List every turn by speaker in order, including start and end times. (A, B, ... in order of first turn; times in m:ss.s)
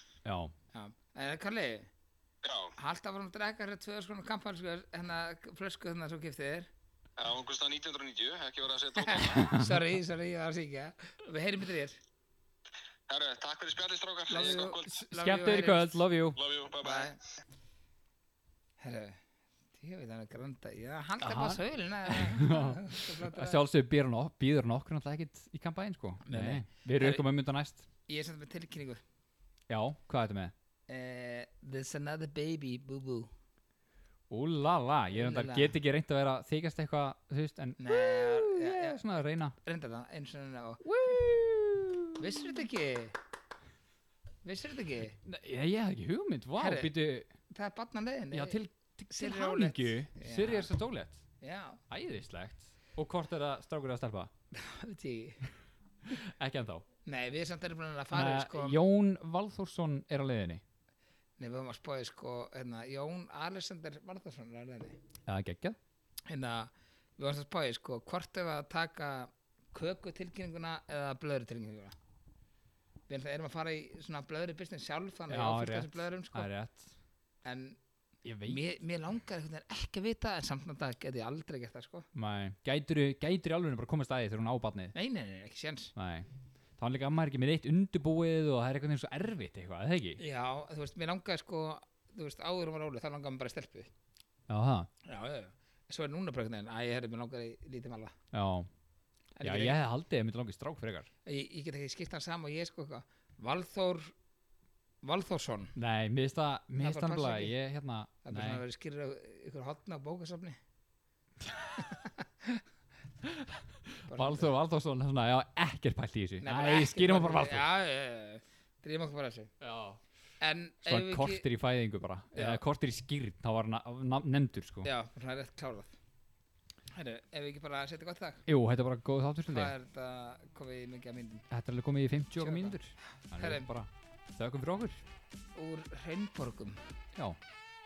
0:00.2-0:00.5 A
0:00.7-0:01.9 B
0:02.4-0:02.7 C
0:02.8-0:06.7 B
0:07.2-0:09.5 C
0:09.1-0:12.0 B
0:09.4-0:09.8 A
0:13.1-0:15.0 C
0:14.3-0:16.0 B
0:15.1-0:16.4 A
0:16.4-0:17.1 C
0:16.8-0:17.2 B
0:18.8-0:19.2 B
0:19.8-0:23.6 B
0:21.2-0:27.8 A
0:26.2-0:27.2 B
0:28.1-0:29.0 B
0:29.7-0:30.5 A
0:30.9-0:33.3 B
0:34.3-0:39.6 A
0:35.1-0:35.7 B
0:37.8-0:39.0 B
0:39.6-0:41.2 B
0:40.8-0:42.6 A
0:42.2-0:43.2 B
0:44.4-0:45.2 B
0:45.2-0:47.3 A
0:46.6-0:46.9 B
0:47.5-0:48.6 B
0:48.3-0:51.2 A
0:49.1-0:50.7 B
0:51.4-0:51.8 B
0:51.9-0:54.3 A
0:54.5-0:55.4 B
0:56.1-0:56.8 A
0:57.0-0:58.8 B
0:58.1-1:00.6 A
1:01.4-1:05.0 B
1:05.2-1:05.8 A
1:06.3-1:11.9 B
1:13.1-1:16.5 B
1:15.3-1:16.9 A
1:17.4-1:17.8 B
1:18.2-1:18.6 A
1:18.4-1:22.1 B
1:22.1-1:24.9 A
1:24.9-1:25.9 B
1:26.0-1:30.2 A
1:30.2-1:33.9 B
1:34.5-1:34.9 A
1:35.0-1:38.1 B
1:38.3-1:38.7 A
1:39.4-1:39.8 B
1:39.4-1:41.1 A
1:41.2-1:44.1 B
1:45.0-1:45.8 B
1:45.8-1:48.6 A
1:46.8-1:47.5 B
1:48.2-1:50.6 B
1:51.8-1:52.6 B
1:53.2-1:57.6 A
1:54.1-1:54.5 B
1:56.4-1:59.5 B
1:59.6-2:00.0 A
2:00.4-2:01.4 B
2:00.8-2:04.9 A
2:02.3-2:02.6 B
2:04.8-2:05.9 B
2:06.9-2:08.4 B
2:08.5-2:09.7 A
2:09.5-2:11.5 B
2:11.5-2:15.0 A
2:12.4-2:12.8 B
2:13.4-2:13.7 B
2:15.5-2:16.8 B